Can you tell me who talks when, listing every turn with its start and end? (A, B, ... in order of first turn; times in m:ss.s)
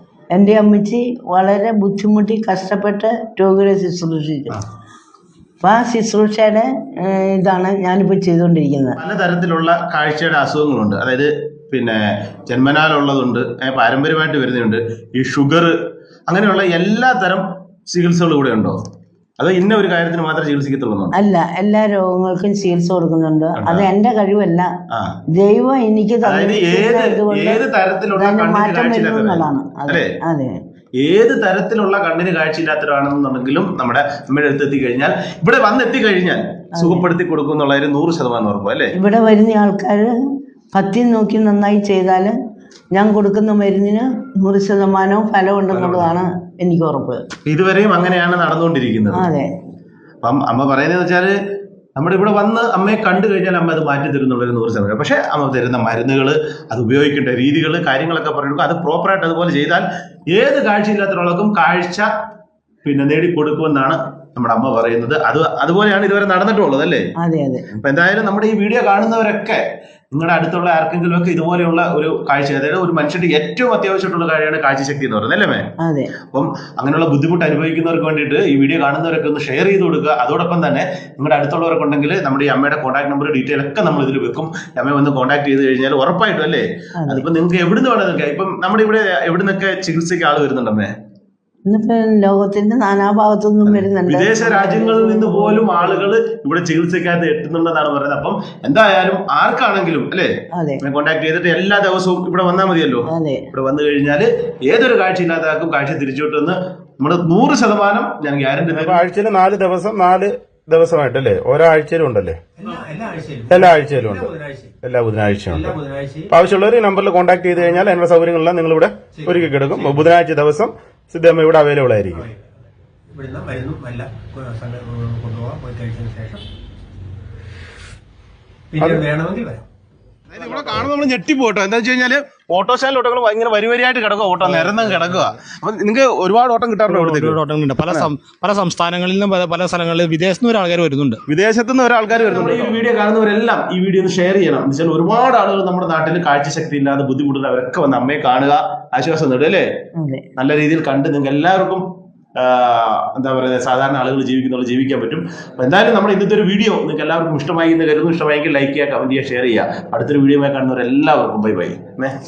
0:00.3-0:04.6 A
0:05.6-0:09.0 A
0:09.0-0:15.8 B
0:16.3-0:18.8 B
0:19.4-0:21.1 B
0:21.2-0:24.7 A
0:23.6-0:23.9 B
0:24.9-0:25.2 B
0:25.3-0:30.5 A
0:26.2-0:30.1 B
0:31.0-0:39.0 B
0:36.8-0:37.1 A
0:39.0-0:40.1 A
0:40.7-0:42.3 A
0:42.9-0:47.2 A
0:45.7-0:46.1 B
0:47.5-0:49.3 B
0:49.2-0:49.5 A
0:50.2-0:51.4 B
0:52.0-1:02.1 B
1:02.8-1:07.0 B
1:07.2-1:07.7 A
1:07.7-1:09.6 B
1:10.1-1:15.6 B
1:15.8-1:16.1 A
1:16.3-1:30.9 B
1:31.7-1:36.1 A
1:33.7-1:49.0 B
1:40.6-1:40.8 A
1:43.1-1:43.4 A
1:48.7-1:52.4 C
1:52.6-1:54.7 D
1:53.5-1:54.3 C
1:54.8-1:55.8 C
1:55.5-1:56.3 D
1:56.3-2:02.3 C
1:57.6-1:57.9 D
1:59.2-2:00.1 D
2:02.1-2:02.4 D
2:03.1-2:06.4 D
2:08.7-2:09.6 D
2:08.8-2:09.0 C
2:10.4-2:10.9 C
2:10.4-2:17.4 B
2:16.9-2:21.2 E
2:21.3-2:22.8 C
2:22.1-2:29.7 B
2:30.0-2:30.3 A
2:30.4-2:31.8 B
2:32.4-2:42.2 B